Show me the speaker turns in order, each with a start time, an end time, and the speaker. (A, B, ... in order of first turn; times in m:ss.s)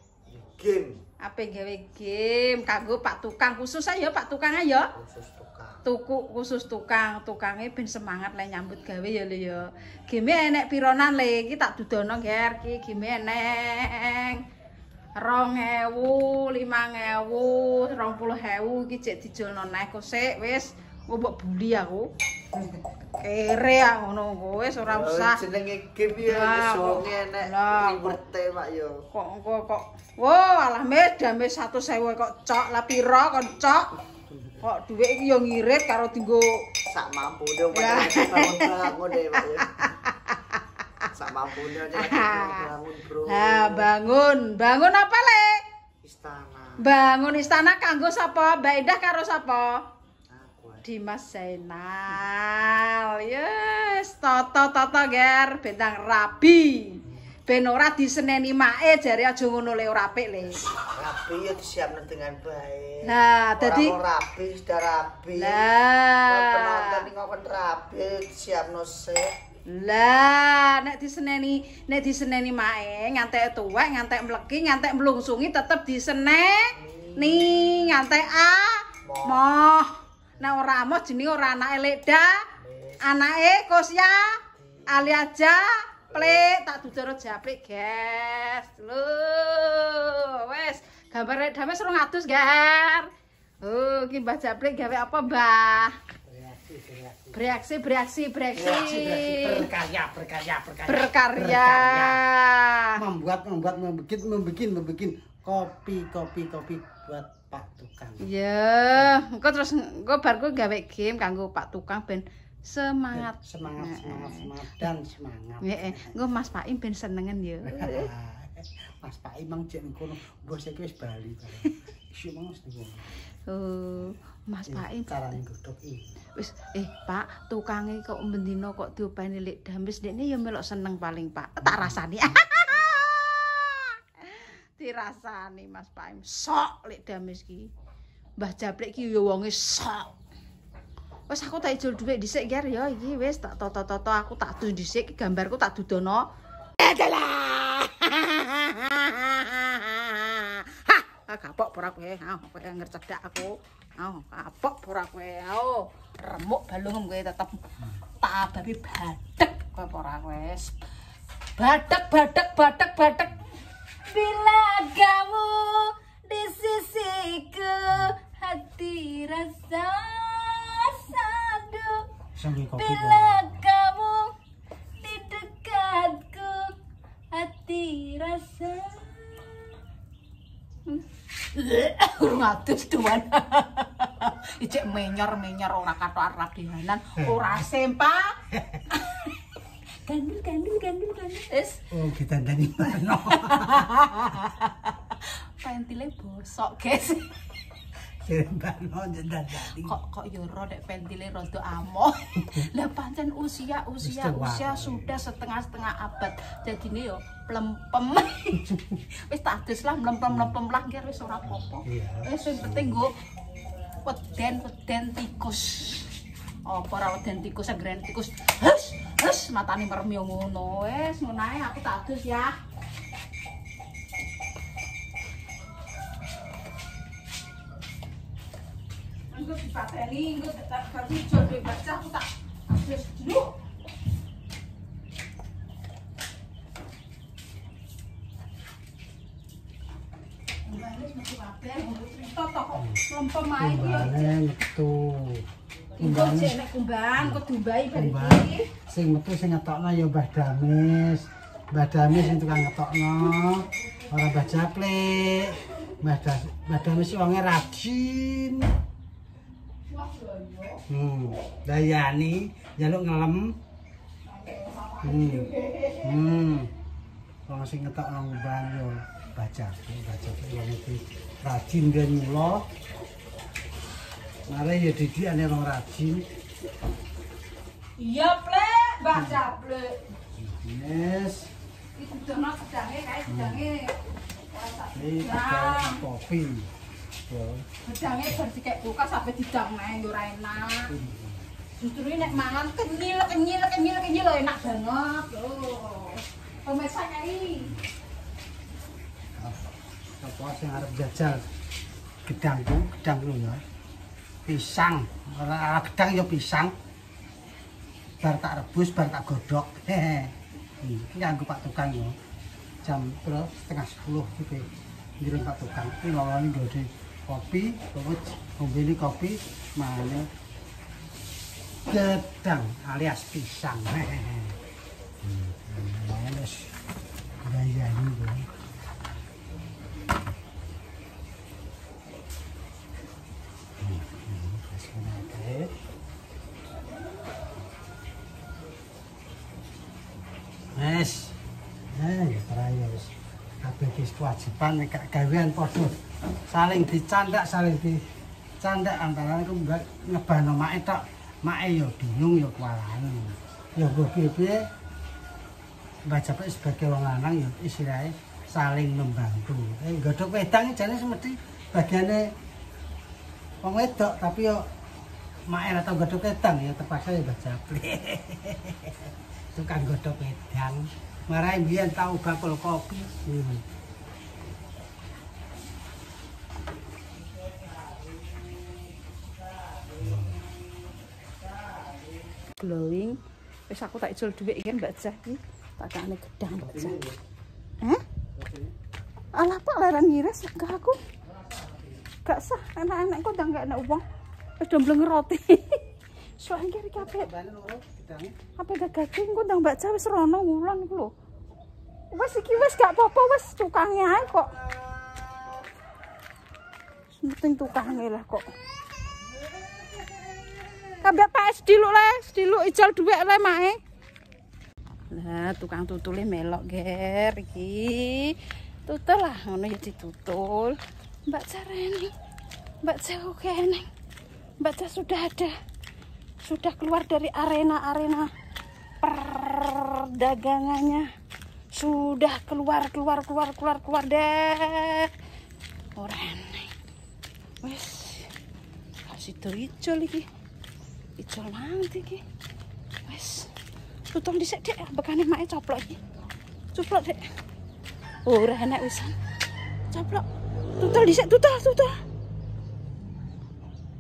0:00.3-0:01.0 A
0:01.2-0:04.9 B
0:05.0-0:05.8 A
0:05.8-0:14.4 B
0:15.2-0:22.1 B
0:23.2-0:25.4 B
0:24.9-0:29.0 A
0:26.1-0:28.2 B
0:29.1-0:33.9 B
0:34.6-0:36.5 B
0:36.9-0:39.9 A
0:37.7-0:41.0 B
0:41.1-0:43.9 A
0:41.9-0:42.7 B
0:43.2-0:45.6 B
0:46.0-0:46.8 A
0:46.8-0:49.8 B
0:50.3-0:50.8 A
0:50.8-1:00.6 B
1:00.7-1:05.6 A
1:03.0-1:04.0 B
1:05.3-1:07.1 B
1:06.3-1:09.3 A
1:09.7-1:22.3 B
1:16.8-1:17.8 A
1:19.0-1:19.4 A
1:22.6-1:23.0 A
1:23.0-1:33.1 B
1:24.6-1:25.1 A
1:26.1-1:26.5 A
1:33.6-1:35.9 B
1:36.2-1:37.6 C
1:37.3-1:39.7 B
1:38.5-1:42.2 C
1:40.9-1:43.0 B
1:43.0-1:48.3 C
1:48.2-1:54.5 B
1:53.1-1:56.1 C
1:55.6-1:58.1 B
1:57.6-2:03.2 C
2:03.5-2:05.4 B
2:04.7-2:06.1 C
2:06.4-2:17.7 B
2:11.6-2:12.4 C
2:18.4-2:20.1 B
2:21.3-2:26.2 B
2:26.8-2:37.6 B
2:38.2-2:40.8 B
2:41.6-2:43.4 B
2:44.1-2:52.0 B
2:52.4-2:53.5 C
2:52.8-2:54.3 B
2:55.0-2:56.7 B
2:57.3-2:59.5 B
3:00.8-3:08.4 B
3:07.2-3:07.6 C
3:08.5-3:08.8 C
3:08.9-3:09.4 B
3:10.0-3:11.8 B
3:11.9-3:14.8 C
3:13.3-3:14.7 B
3:15.6-3:17.3 B
3:18.2-3:20.0 C
3:19.6-3:33.1 B
3:22.4-3:22.7 C
3:24.0-3:25.0 C
3:28.5-3:29.0 C
3:30.3-3:30.5 C
3:31.8-3:33.0 C
3:34.0-3:36.1 B
3:36.6-3:42.6 B
3:49.3-3:53.5 B
4:00.6-4:04.3 B
4:02.7-4:03.0 C
4:03.6-4:05.4 C
4:06.0-4:06.6 C
4:06.0-4:08.6 B
4:07.2-4:18.7 C
4:19.9-4:20.8 B
4:20.9-4:23.6 C
4:24.3-4:26.2 B
4:25.0-4:26.7 C
4:27.5-4:32.6 C
4:34.5-4:36.2 C
4:38.0-4:40.0 B
4:39.1-4:39.4 C
4:40.4-4:41.5 C
4:42.0-4:43.9 B
4:43.3-4:43.7 C
4:44.5-4:46.0 B
4:44.9-4:46.7 C
4:47.3-4:47.6 C
4:47.8-4:50.9 B
4:50.9-4:51.4 C
4:51.8-4:57.7 B
4:59.4-5:01.4 C
5:02.2-5:03.6 C
5:04.4-5:06.7 C
5:08.2-5:12.2 C
5:12.8-5:20.3 C
5:21.9-5:24.6 C
5:25.2-5:26.7 C
5:27.4-5:28.5 C
5:33.8-5:35.7 C
5:40.7-5:41.4 C
5:41.9-5:45.9 C
5:46.5-5:48.1 C
5:48.6-5:54.6 C
5:56.0-6:02.3 C
6:03.6-6:04.6 C
6:05.5-6:13.6 C
6:20.0-6:20.5 C
6:22.6-6:27.0 B
6:26.6-6:27.2 C
6:28.4-6:28.7 C
6:29.3-6:31.0 B
6:32.2-6:34.0 B
6:34.6-6:35.8 B
6:36.4-6:37.3 B
6:37.0-6:38.4 C
6:38.5-6:41.1 B
6:42.1-6:44.6 B
6:47.2-6:48.5 B
6:51.0-6:53.8 B
6:55.1-6:58.3 B
6:58.8-7:02.1 B
7:02.8-7:03.8 B
7:04.6-7:05.5 B
7:06.4-7:08.3 B
7:09.0-7:11.1 B
7:11.7-7:15.1 B
7:16.0-7:16.7 B
7:17.6-7:18.3 B
7:19.0-7:20.3 B
7:21.2-7:22.2 B
7:23.0-7:23.5 B
7:24.1-7:26.0 B
7:26.7-7:27.2 B
7:28.2-7:29.1 B
7:29.9-7:30.2 B
7:30.8-7:32.0 B